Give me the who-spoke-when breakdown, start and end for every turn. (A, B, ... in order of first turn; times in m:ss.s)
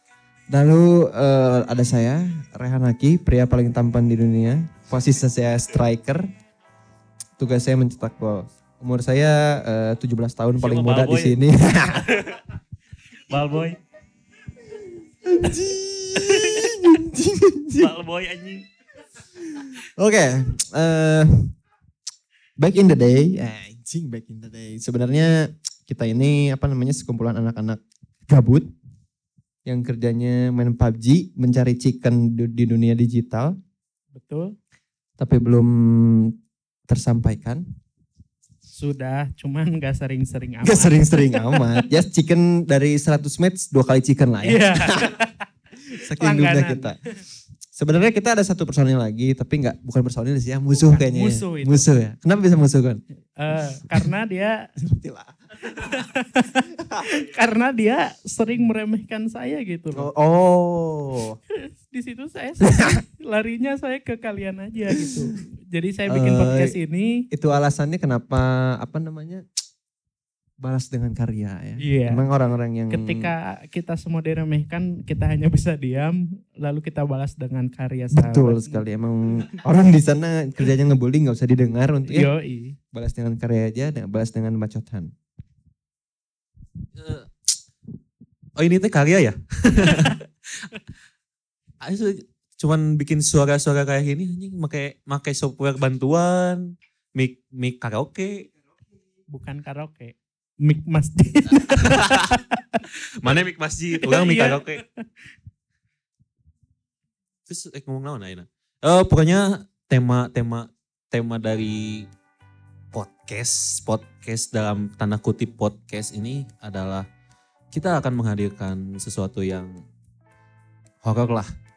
0:00.5-0:06.3 A
0:07.4-0:12.1 A
0:10.6-0:11.4 B
0:12.0-0:12.4 B
0:13.3-0:13.8 B
0:14.6-0:17.9 A
0:16.2-0:16.8 B
0:17.8-0:18.7 B
0:19.4-0:21.5 A
0:22.6-0:28.7 A
0:29.6-0:33.6 A
0:34.1-0:34.6 C
0:35.2-0:36.3 A
0:36.9-0:37.6 A
0:38.7-0:41.8 C
0:40.6-0:45.1 A
0:44.4-0:46.9 C
0:46.0-0:47.0 A
0:47.7-0:53.0 A
0:50.7-0:51.9 C
0:53.4-0:54.7 C
0:54.8-0:55.6 A
0:55.7-1:00.1 C
0:56.8-0:57.1 A
0:59.9-1:01.4 A
1:01.5-1:07.3 C
1:02.6-1:03.0 A
1:06.1-1:06.8 A
1:07.3-1:09.4 A
1:10.6-1:13.3 A
1:11.8-1:12.2 C
1:12.9-1:18.8 C
1:18.1-1:22.3 A
1:22.0-1:22.8 C
1:22.9-1:25.1 A
1:27.0-1:27.3 B
1:28.6-1:30.8 B
1:31.8-1:38.5 B
1:39.3-1:42.8 C
1:41.5-1:42.4 B
1:42.9-1:44.8 B
1:44.0-1:44.8 C
1:47.5-1:52.1 B
1:52.9-1:57.0 B
1:57.7-1:59.8 B
2:01.0-2:01.5 B